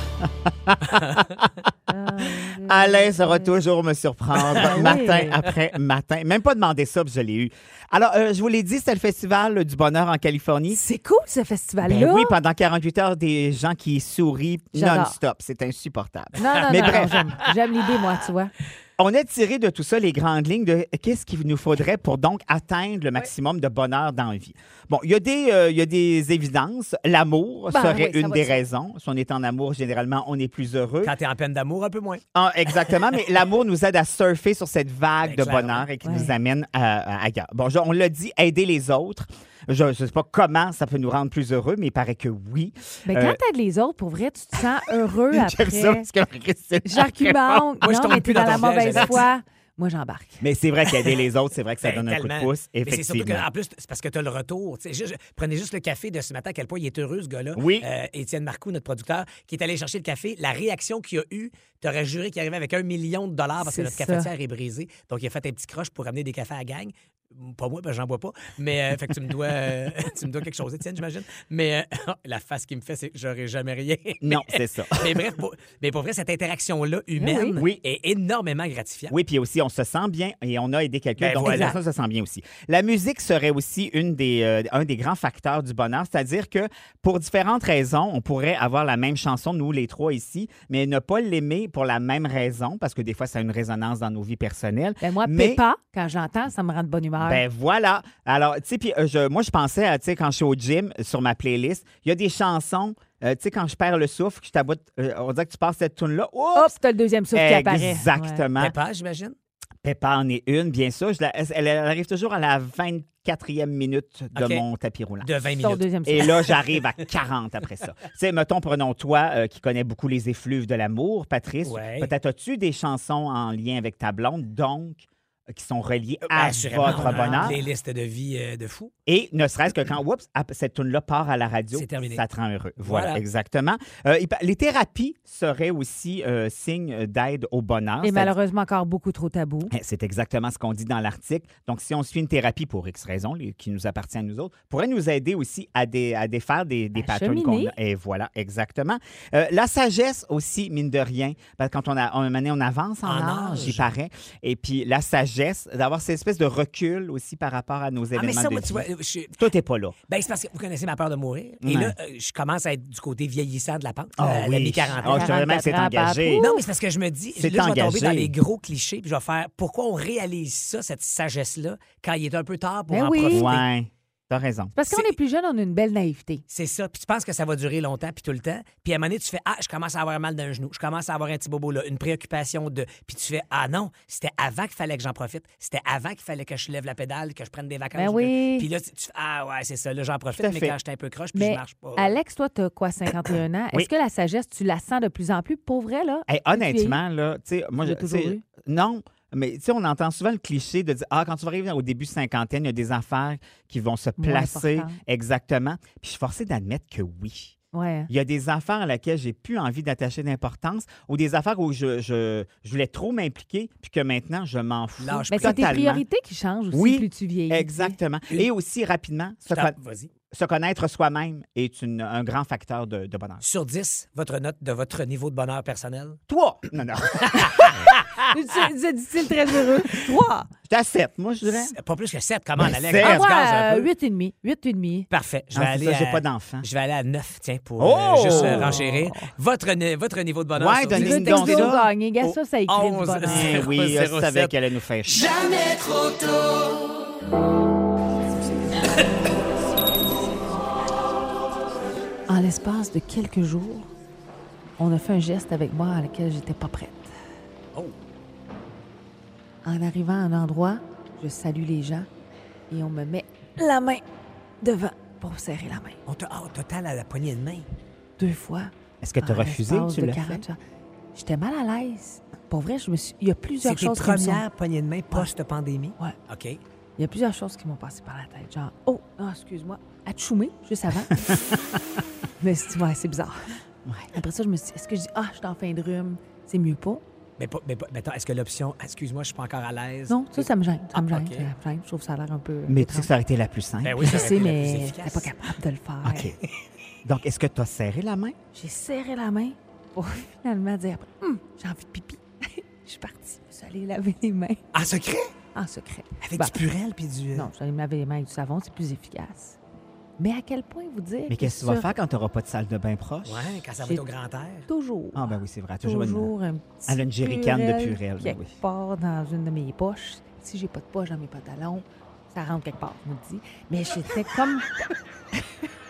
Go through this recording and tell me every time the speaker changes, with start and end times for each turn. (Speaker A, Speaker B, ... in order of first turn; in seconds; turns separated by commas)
Speaker A: 0.2-1.2, Speaker B: 1.9-3.5, Speaker A: 2.2-10.8, Speaker C: 4.5-5.5, Speaker B: 4.6-5.4, Speaker B: 10.7-12.4, Speaker A: 11.8-17.2, Speaker B: 14.8-15.2, Speaker B: 16.4-18.5, Speaker C: 16.6-17.5, Speaker A: 19.0-31.1, Speaker B: 27.7-28.6, Speaker C: 31.0-32.2, Speaker A: 32.4-43.4, Speaker C: 35.2-35.9, Speaker B: 36.0-36.3, Speaker B: 43.1-46.1, Speaker A: 45.3-49.2, Speaker B: 46.8-50.4, Speaker C: 47.8-49.3, Speaker A: 50.4-53.5, Speaker C: 51.8-79.2, Speaker A: 57.5-57.9, Speaker B: 63.6-64.3, Speaker A: 74.2-75.3, Speaker B: 77.2-77.6, Speaker A: 77.6-77.8, Speaker A: 79.1-95.6, Speaker C: 81.2-81.8, Speaker B: 81.5-81.8, Speaker B: 95.0-97.4, Speaker A: 97.2-106.8, Speaker B: 106.5-108.5, Speaker A: 107.3-108.8, Speaker C: 108.6-109.4, Speaker A: 109.8-115.3, Speaker C: 114.3-114.7, Speaker C: 115.2-115.9, Speaker B: 115.6-116.4, Speaker A: 116.0-127.6, Speaker C: 121.6-122.1, Speaker C: 126.2-128.9, Speaker B: 127.1-127.5, Speaker A: 129.1-138.3, Speaker C: 131.7-132.2, Speaker C: 132.8-133.2, Speaker B: 138.0-139.7, Speaker A: 139.7-160.0, Speaker B: 146.9-147.7, Speaker C: 153.0-153.9, Speaker C: 158.1-159.5, Speaker C: 160.1-165.3, Speaker A: 161.6-161.9, Speaker A: 164.2-166.5, Speaker B: 165.0-166.6, Speaker C: 166.4-173.7, Speaker A: 167.3-168.3, Speaker B: 172.9-173.5, Speaker A: 173.2-174.8, Speaker B: 174.8-176.4, Speaker C: 176.5-192.2, Speaker B: 187.9-188.7, Speaker A: 190.3-190.8, Speaker B: 191.3-197.0, Speaker A: 196.3-207.6, Speaker B: 197.8-198.4, Speaker B: 204.2-205.0, Speaker B: 207.7-208.1, Speaker A: 208.1-216.1, Speaker C: 215.0-215.6, Speaker B: 215.3-218.0, Speaker A: 216.7-219.8, Speaker C: 219.5-220.1, Speaker A: 220.3-223.4, Speaker C: 223.4-226.2, Speaker A: 226.3-227.8, Speaker C: 227.2-228.1, Speaker B: 228.3-230.5, Speaker A: 230.7-231.8, Speaker C: 231.4-233.9, Speaker A: 232.6-233.2, Speaker B: 233.0-235.1, Speaker C: 235.1-244.6, Speaker A: 235.5-236.7, Speaker A: 237.8-238.8, Speaker B: 238.3-239.3, Speaker A: 240.5-241.9, Speaker B: 240.9-243.7, Speaker A: 243.2-245.2, Speaker B: 252.3-253.9, Speaker B: 254.8-257.1, Speaker B: 259.6-262.1, Speaker B: 262.7-264.0, Speaker B: 264.6-266.0, Speaker C: 266.1-267.7, Speaker B: 268.2-270.6, Speaker A: 269.0-270.5, Speaker B: 271.1-274.4, Speaker C: 273.6-276.6, Speaker B: 277.0-281.5, Speaker B: 282.4-283.6, Speaker B: 284.1-287.0, Speaker C: 287.4-291.5, Speaker B: 290.1-293.1, Speaker A: 292.7-294.2, Speaker C: 293.8-295.3, Speaker B: 294.0-296.3, Speaker A: 296.0-296.4, Speaker A: 297.1-298.4, Speaker B: 298.5-304.6, Speaker C: 304.7-305.3, Speaker B: 305.6-306.6, Speaker C: 306.2-307.5, Speaker B: 307.3-309.6, Speaker B: 310.2-312.0, Speaker A: 311.3-313.6, Speaker C: 313.2-314.7, Speaker B: 314.7-324.8, Speaker A: 315.1-316.3, Speaker A: 316.9-318.6